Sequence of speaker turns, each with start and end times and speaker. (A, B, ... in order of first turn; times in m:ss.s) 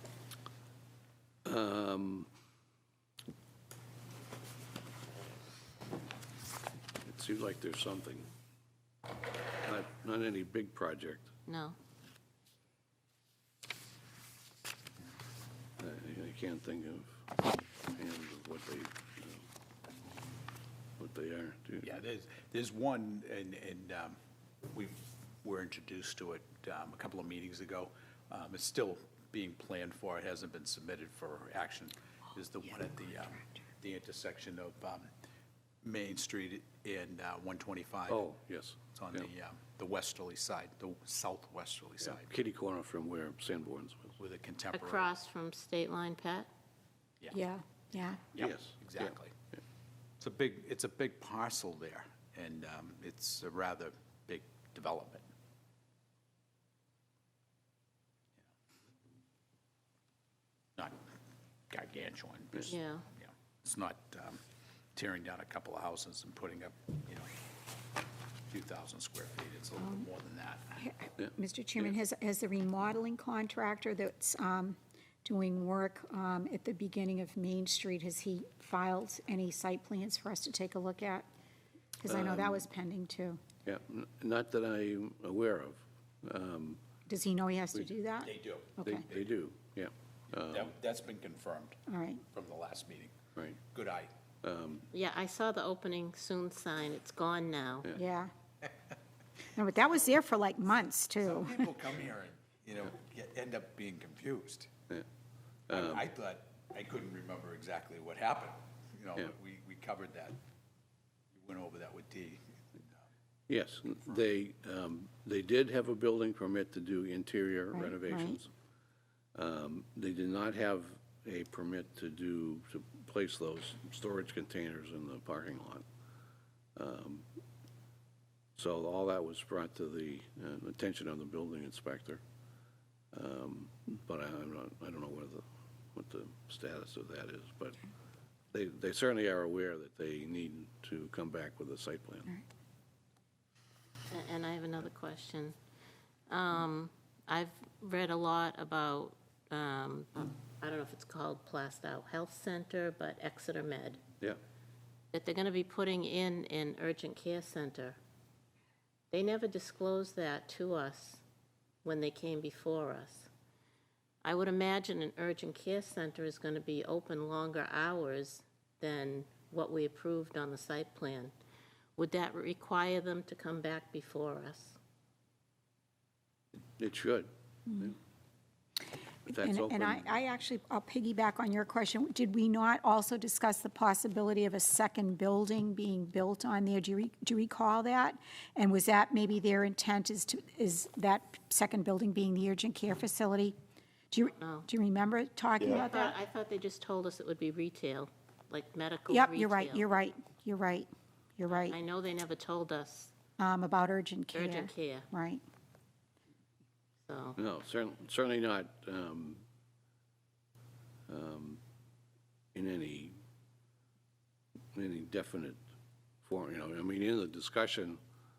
0:01.4-0:02.3 A
0:07.0-0:08.3 A
0:09.6-0:11.3 A
0:11.5-0:11.8 B
0:15.8-0:17.2 A
0:18.0-0:19.4 A
0:21.0-0:21.9 A
0:21.8-0:24.2 C
0:24.7-0:35.1 C
0:35.8-0:38.2 C
0:38.1-0:39.3 A
0:38.9-0:42.3 C
0:42.0-0:44.2 A
0:44.2-0:45.2 C
0:44.7-0:46.5 B
0:47.3-0:48.3 D
0:48.4-0:49.3 C
0:48.4-0:49.1 A
0:50.2-0:55.2 C
1:00.8-1:01.0 C
1:01.7-1:04.4 C
1:02.7-1:03.1 B
1:05.0-1:07.3 C
1:08.5-1:10.9 C
1:10.8-1:21.3 D
1:22.0-1:23.4 D
1:22.1-1:22.6 A
1:23.6-1:26.8 A
1:27.1-1:28.3 D
1:28.2-1:29.3 C
1:28.8-1:30.7 A
1:30.5-1:31.8 C
1:31.9-1:32.2 D
1:32.3-1:33.2 C
1:33.7-1:34.1 C
1:34.4-1:34.9 A
1:34.9-1:38.0 B
1:38.0-1:38.3 D
1:39.6-1:41.7 D
1:41.2-1:44.7 C
1:45.7-1:46.0 A
1:45.7-1:50.4 C
1:51.3-1:53.0 C
1:53.5-1:58.5 A
1:57.7-1:58.4 D
1:59.4-2:05.8 A
2:06.8-2:07.3 A
2:08.6-2:12.2 A
2:13.1-2:17.8 A
2:18.5-2:22.3 A
2:24.1-2:25.5 B
2:26.3-2:34.0 B
2:35.1-2:38.0 B
2:39.1-2:41.2 B
2:41.8-2:43.3 B
2:44.2-2:51.3 B
2:52.0-2:54.8 B
2:56.8-2:58.0 A
2:59.3-3:00.1 A
2:59.3-3:13.6 D
3:14.1-3:16.2 D
3:14.4-3:14.7 B
3:15.7-3:20.1 B
3:19.1-3:21.8 D
3:21.5-3:23.1 B
3:23.4-3:25.4 D
3:24.3-3:25.1 B
3:27.1-3:27.4 B
3:27.4-3:29.4 A
3:31.1-3:31.6 A
3:32.5-3:33.2 A
3:34.7-3:35.6 A
3:36.2-3:38.0 A